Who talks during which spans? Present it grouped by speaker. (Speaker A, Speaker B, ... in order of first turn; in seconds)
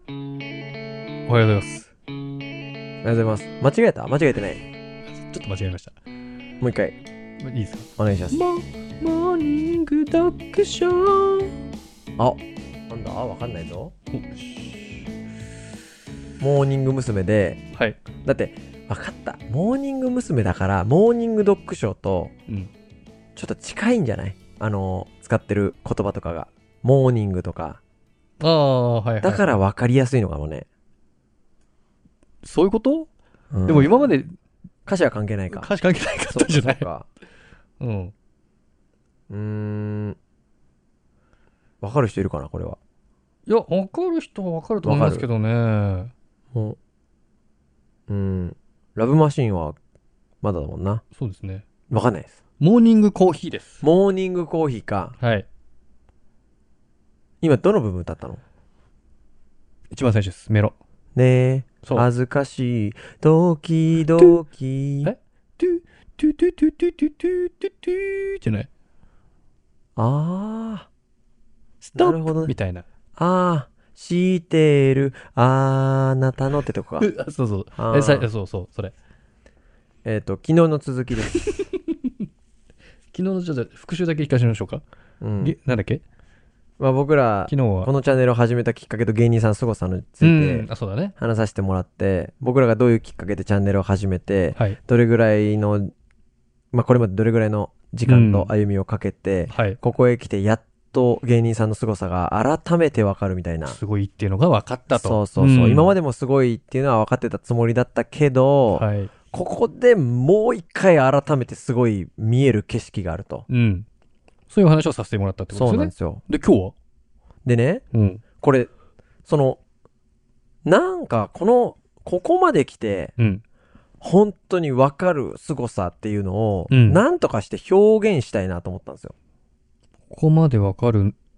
Speaker A: 1.3-1.9, 5.1-6.0, 7.4-11.5, 14.1-15.0, 17.7-18.0, 28.4-29.6, 32.4-33.1, 33.7-34.3, 35.5-36.9, 37.8-38.1, 43.5-46.1, 51.1-51.6, 52.6-53.8, 55.2-55.5, 59.9-60.7, 64.1-64.3, 65.0-68.7, 71.8-72.8, 77.0-78.9, 81.4-81.7, 83.1-84.8, 85.4-86.0, 87.5-87.9, 90.2-91.1, 98.0-98.5, 99.5-99.8, 103.6-105.9, 108.7-109.1, 113.5-113.9, 114.5-116.7, 117.9-118.2, 126.7-127.0, 130.1-131.1
Speaker B: 3.0-4.6, 6.6-7.0, 8.0-8.4, 12.2-13.9, 16.4-17.6, 18.2-22.3, 23.4-27.8, 29.2-30.7, 33.5-34.1, 34.9-35.7, 36.3-37.1, 39.3-40.2, 41.8-42.8, 44.8-45.2, 48.1-49.8, 50.4-51.0, 51.9-52.4, 53.8-55.1, 57.4-58.4, 61.1-65.1, 70.0-70.9, 72.0-72.5, 73.2-77.1, 77.8-78.3, 80.0-81.5, 85.2-85.5, 86.8-95.9, 96.7-103.8, 104.9-113.5, 115.5-116.2, 117.4-117.8, 118.4-118.7, 119.2-119.6, 120.7-123.1, 124.0-129.1